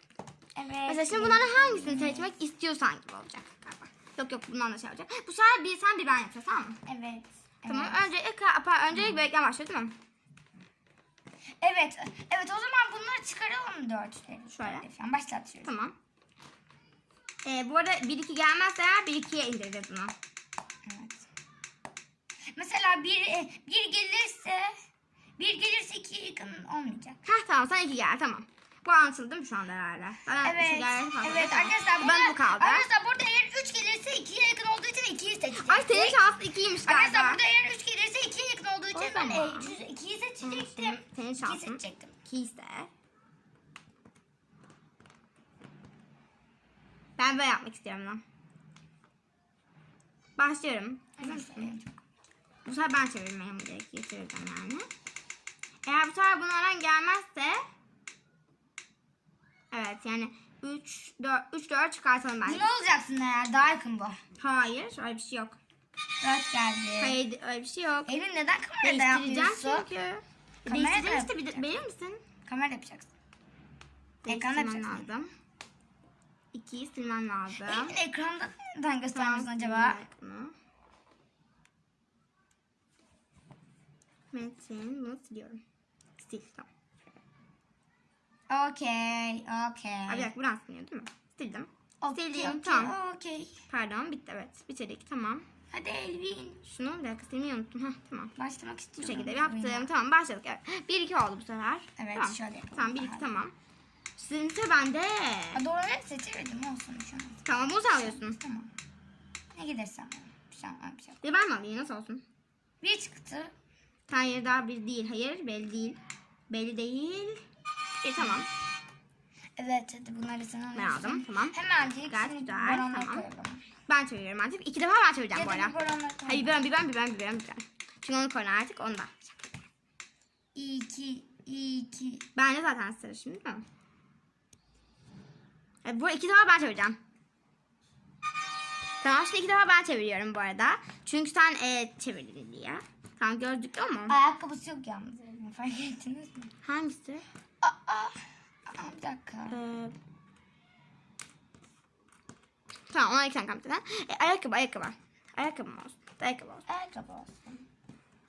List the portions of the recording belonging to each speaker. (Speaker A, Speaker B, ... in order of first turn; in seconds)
Speaker A: 0.6-2.3, 6.9-8.1, 11.6-15.7, 20.9-21.3, 22.5-24.7, 25.4-27.2, 30.4-36.2, 36.8-42.1, 51.2-51.9, 62.4-64.2, 66.2-67.2, 68.1-69.9, 70.7-71.6, 72.5-73.1, 74.2-75.1, 77.6-80.0, 88.5-90.3, 92.0-93.5, 95.7-96.6, 98.4-99.9, 102.0-103.3, 105.5-108.7, 109.5-111.2, 112.8-113.5, 119.6-123.6, 125.3-126.6, 130.5-132.2, 144.1-146.5, 147.6-149.6, 156.7-157.6
Speaker B: 0.9-6.8, 7.7-9.9, 14.5-14.8, 15.6-15.9, 17.4-20.1, 27.2-32.9, 35.6-37.4, 38.9-39.7, 40.4-42.9, 47.2-48.2, 50.4-51.7, 52.6-54.9, 55.8-57.6, 59.7-62.7, 64.4-65.6, 67.0-68.1, 68.8-72.2, 74.2-75.3, 76.5-78.0, 79.1-80.5, 84.3-85.6, 86.2-86.7, 90.1-92.9, 93.7-95.5, 96.6-98.3, 99.0-103.5, 104.2-105.6, 107.4-108.4, 111.2-112.2, 114.1-117.4, 118.0-118.5, 120.7-123.2, 123.9-129.6, 132.3-133.6, 135.8-137.0, 139.0-144.2, 146.6-147.2, 149.5-149.9, 152.9-156.6